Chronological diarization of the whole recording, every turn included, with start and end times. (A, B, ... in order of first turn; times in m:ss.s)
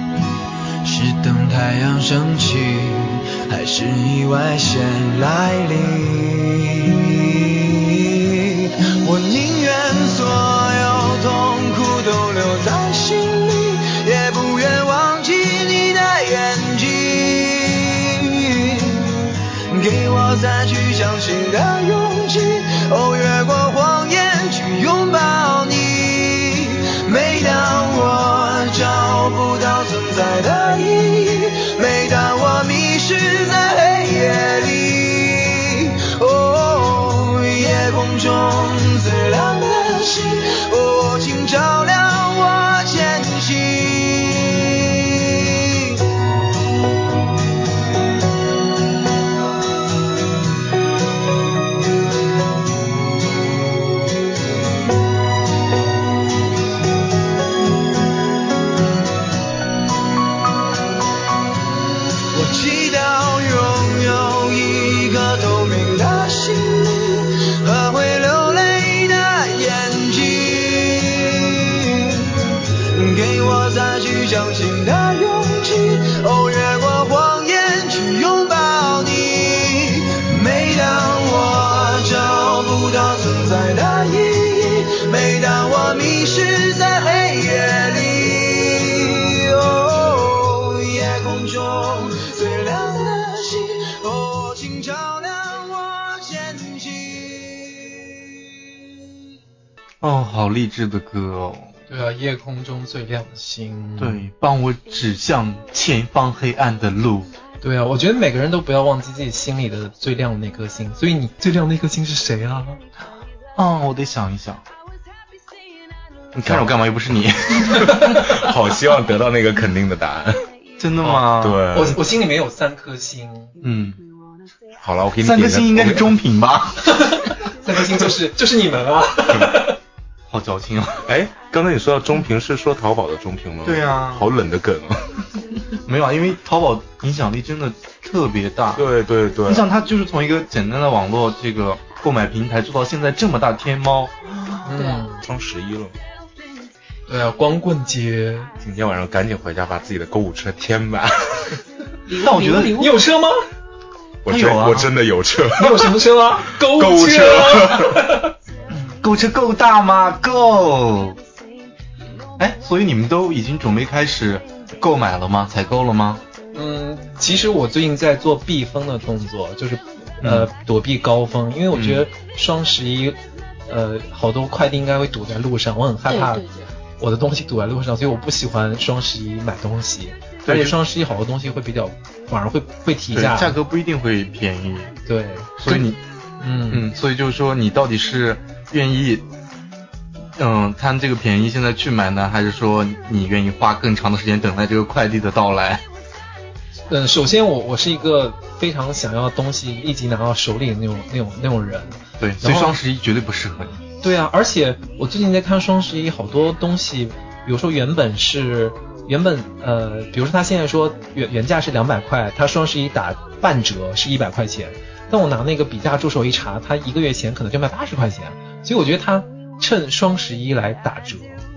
0:00.8-0:46.0 A
1:02.3-1:38.0 A
1:40.0-1:41.7 B
1:41.9-1:44.2 C
1:44.0-1:47.3 B
1:47.6-1:52.8 C
1:53.6-1:54.6 B
1:56.3-1:56.7 D
1:56.4-1:57.9 B
1:57.6-2:00.4 D
2:00.8-2:01.6 B
2:01.0-2:03.6 C
2:01.2-2:02.0 D
2:03.6-2:04.0 B
2:04.8-2:06.2 D
2:05.2-2:06.8 B
2:07.0-2:09.8 C
2:10.3-2:11.0 B
2:11.0-2:15.2 D
2:13.6-2:14.3 B
2:15.8-2:18.9 B
2:18.7-2:19.6 D
2:19.4-2:24.6 B
2:24.6-2:25.2 C
2:24.8-2:25.1 E
2:25.2-2:26.0 D
2:27.1-2:28.5 C
2:28.6-2:31.6 D
2:32.1-2:33.0 E
2:32.2-2:32.9 B
2:32.7-2:33.4 C
2:34.2-2:38.0 D
2:34.3-2:34.9 B
2:35.6-2:38.3 C
2:39.0-2:41.2 B
2:42.4-2:46.2 B
2:46.5-2:53.2 C
2:50.2-2:50.5 B
2:51.7-2:52.0 B
2:53.7-2:56.4 C
2:56.1-2:56.7 E
2:57.0-3:03.6 C
3:00.4-3:00.8 B
3:03.1-3:04.9 B
3:05.0-3:05.8 C
3:05.6-3:06.0 B
3:06.4-3:06.9 C
3:06.7-3:09.2 B
3:10.4-3:15.8 B
3:16.9-3:22.7 C
3:22.2-3:23.8 B
3:24.0-3:41.4 C